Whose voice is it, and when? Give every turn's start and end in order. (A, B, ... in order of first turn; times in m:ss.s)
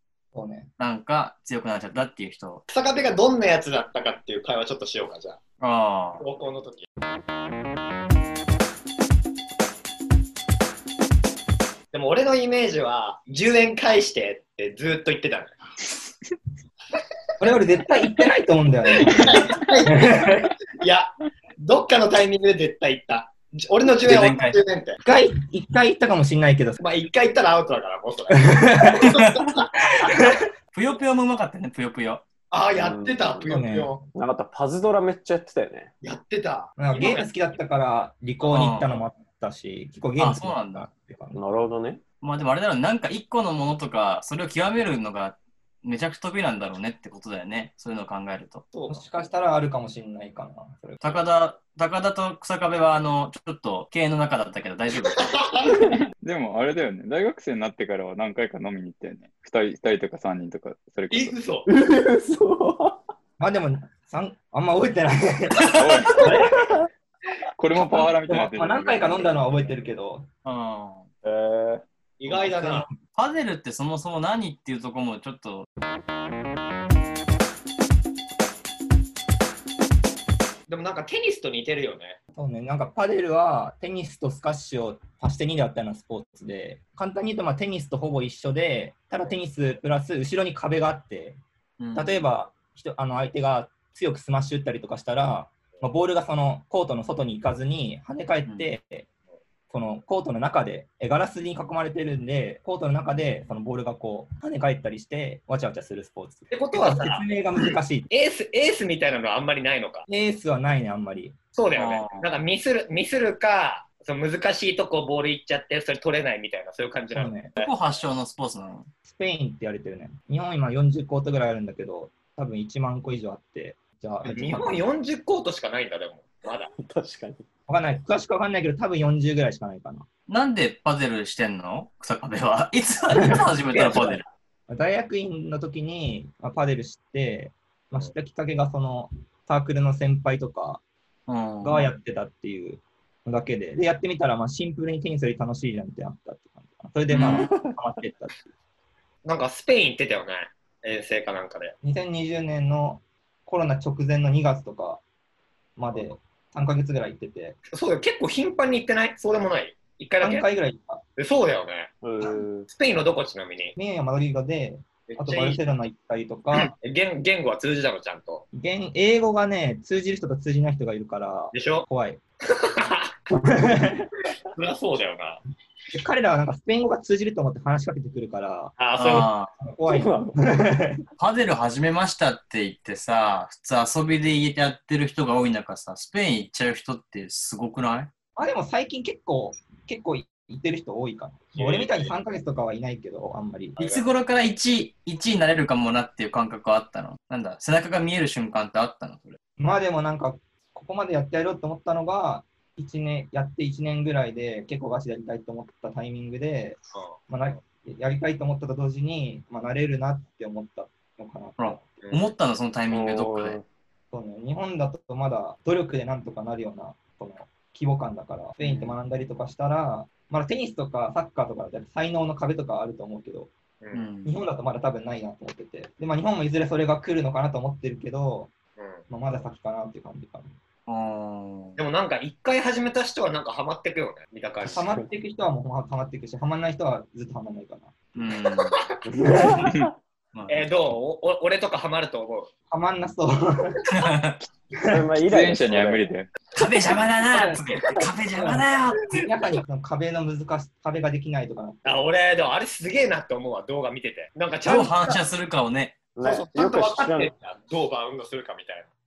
0:00.3-0:00.7 A
0:00.8-0:02.6 B
0:02.7-0:05.4 C
0:05.6-0:06.2 B
0:06.2-0:06.8 C
0:11.9-0:15.6 C
0:17.4-0:20.5 A
0:18.9-0:25.0 C
0:24.0-0:24.6 B
0:25.0-0:26.8 A
0:26.8-0:30.2 C
0:28.3-0:29.2 A
0:29.1-0:29.6 B
0:30.1-0:30.4 A
0:30.7-0:32.2 B
0:32.5-0:34.0 C
0:32.7-0:33.6 D
0:33.4-0:33.9 A
0:34.1-0:35.9 D
0:36.0-0:37.3 C
0:36.8-0:41.4 A
0:38.5-0:38.9 B
0:40.2-0:40.9 B
0:41.3-0:42.0 D
0:42.2-0:48.6 B
0:48.7-0:49.3 C
0:48.9-0:51.2 A
0:51.0-0:55.3 B
0:55.2-0:55.7 C
0:56.2-1:01.3 E
1:01.1-1:01.7 C
1:01.7-1:03.0 D
1:03.4-1:06.6 A
1:05.7-1:06.4 E
1:06.4-1:06.7 D
1:07.6-1:09.3 E
1:07.7-1:10.3 A
1:10.4-1:11.1 B
1:11.2-1:11.8 D
1:12.2-1:12.9 C
1:12.3-1:13.0 A
1:13.1-1:15.6 B
1:20.7-1:22.2 C
1:22.3-1:31.4 A
1:31.8-1:32.2 B
1:31.9-1:39.1 A
1:38.4-1:38.7 B
1:39.7-1:48.1 A
1:46.5-1:50.0 C
1:50.1-1:51.4 A
1:51.5-1:57.7 C
1:51.7-1:52.3 B
1:57.1-1:57.5 A
1:57.6-1:58.9 B
1:59.0-2:04.9 A
2:04.2-2:06.7 C
2:06.8-2:07.4 D
2:07.7-2:10.0 A
2:10.3-2:14.2 B
2:13.2-2:13.4 A
2:13.8-2:14.0 C
2:14.7-2:20.8 A
2:21.3-2:21.9 B
2:21.6-2:28.5 A
2:27.1-2:27.5 B
2:27.2-2:27.7 D
2:29.2-2:31.7 C
2:31.8-2:35.0 A
2:35.8-2:37.6 A
2:37.7-2:40.5 C
2:40.2-2:41.0 A
2:41.2-2:43.7 C
2:42.0-2:42.7 D
2:43.8-2:46.7 A
2:45.1-2:45.6 C
2:46.6-2:48.4 C
2:48.5-2:52.2 A
2:51.5-2:51.8 C
2:52.5-2:53.1 C
2:53.4-2:54.1 A
2:54.5-2:55.4 C
2:55.9-2:58.7 A
2:58.8-2:59.3 C
2:59.0-2:59.5 B
2:59.6-3:01.0 A
2:59.9-3:00.5 D
3:01.2-3:08.1 B
3:08.4-3:13.8 A
3:11.5-3:12.1 C
3:13.8-3:14.0 C
3:13.8-3:19.4 B
3:19.6-3:31.9 A
3:31.6-3:33.6 B
3:32.0-3:32.3 C
3:32.9-3:33.6 D
3:34.1-3:43.5 A
3:43.8-3:44.0 C
3:43.9-3:44.3 B
3:44.2-3:48.5 A
3:48.8-3:49.0 C
3:49.1-3:50.5 A
3:50.9-3:51.8 B
3:51.8-3:54.9 C
3:54.6-3:57.9 A
3:58.1-3:58.8 B
3:59.1-3:59.9 D
3:59.2-3:59.7 A
4:00.3-4:00.7 B
4:00.5-4:02.5 C
4:02.7-4:03.9 A
4:03.9-4:04.4 B
4:04.7-4:05.0 A
4:04.9-4:06.1 D
4:05.2-4:06.3 E
4:06.5-4:09.2 B
4:07.3-4:07.6 A
4:08.3-4:12.0 A
4:11.8-4:15.2 C
4:14.6-4:16.0 B
4:16.2-4:17.3 D
4:16.2-4:18.9 C